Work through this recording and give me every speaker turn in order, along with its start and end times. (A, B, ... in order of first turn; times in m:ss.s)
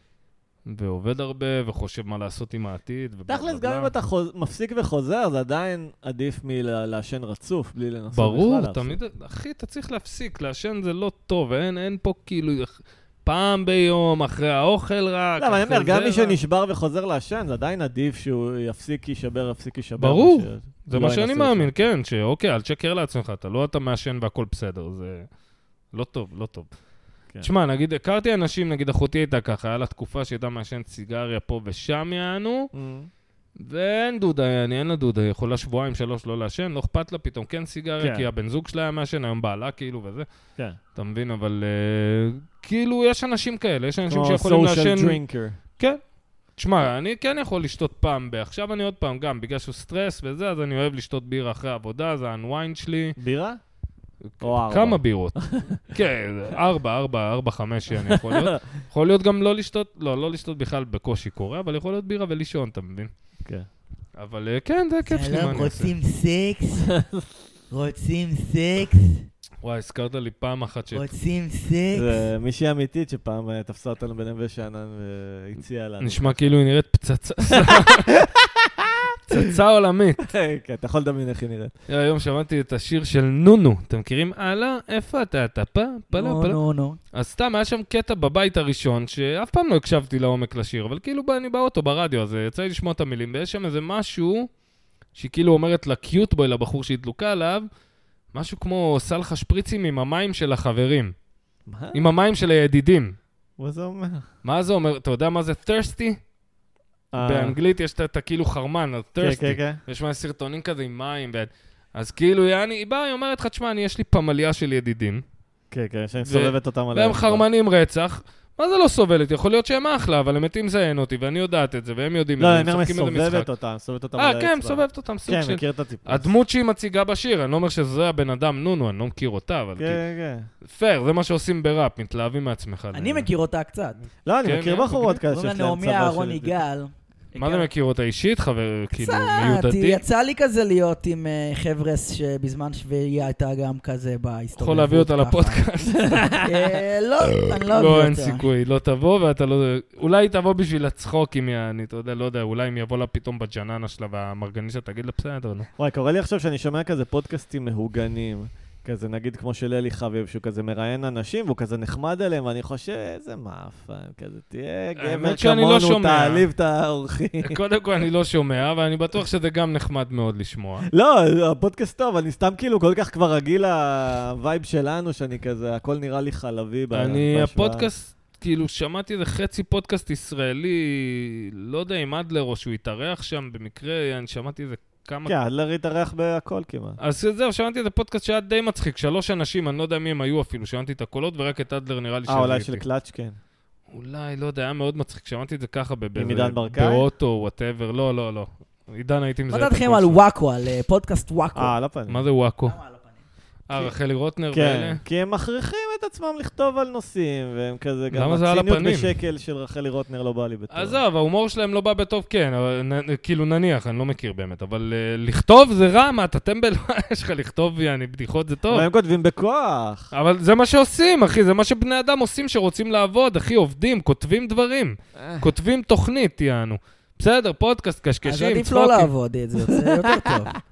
0:00.7-0:03.9 A
0:03.3-0:09.0 B
0:08.1-0:12.7 A
0:13.2-0:16.4 A
0:15.4-0:21.7 B
0:20.0-0:25.3 A
0:25.9-0:26.7 A
0:27.4-0:32.7 A
0:32.7-0:33.1 B
0:33.6-0:40.3 A
0:38.0-0:38.3 B
0:41.0-0:45.2 A
0:44.1-0:45.6 B
0:45.7-0:46.0 A
0:46.5-0:53.2 A
0:53.2-0:53.6 B
0:54.3-1:03.1 A
0:54.4-0:55.8 B
0:58.1-0:58.5 B
1:04.2-1:05.9 A
1:05.1-1:06.9 C
1:07.7-1:09.2 C
1:09.6-1:11.1 A
1:10.9-1:12.3 C
1:11.9-1:16.4 B
1:16.0-1:18.1 A
1:17.6-1:19.4 B
1:19.3-1:20.3 A
1:20.2-1:21.7 B
1:21.9-1:26.6 A
1:26.1-1:27.0 C
1:27.1-1:34.5 A
1:35.2-1:37.7 A
1:38.3-1:41.1 A
1:41.7-1:42.0 B
1:41.9-1:43.2 A
1:43.6-1:44.2 B
1:44.4-1:46.2 A
1:47.1-1:47.6 B
1:47.2-1:55.2 A
1:49.2-1:49.8 B
1:55.7-1:57.4 B
1:56.2-2:03.5 A
2:02.4-2:06.3 B
2:04.2-2:10.0 A
2:09.8-2:10.5 B
2:10.6-2:13.3 A
2:12.9-2:14.0 C
2:14.2-2:16.6 B
2:14.4-2:15.2 A
2:15.3-2:17.7 C
2:17.4-2:20.0 A
2:19.0-2:25.6 C
2:24.6-2:26.6 A
2:26.0-2:26.4 B
2:26.4-2:28.4 C
2:27.6-2:35.7 A
2:35.8-2:47.6 B
2:45.0-2:46.5 A
2:47.4-2:50.9 A
2:50.9-2:57.9 B
2:56.9-3:05.3 A
3:05.3-3:07.0 B
3:07.0-3:12.8 A
3:12.3-3:13.4 B
3:13.9-3:20.2 A
3:16.2-3:17.0 B
3:19.5-3:21.8 C
3:21.6-3:22.2 B
3:22.1-3:22.8 A
3:22.7-3:23.2 C
3:23.7-3:25.0 A
3:24.5-3:31.0 B
3:28.1-3:29.1 A
3:30.7-3:38.9 A
3:38.7-3:40.1 B
3:40.1-3:49.1 A
3:45.2-3:45.5 B
3:48.2-3:50.5 C
3:50.0-3:50.6 B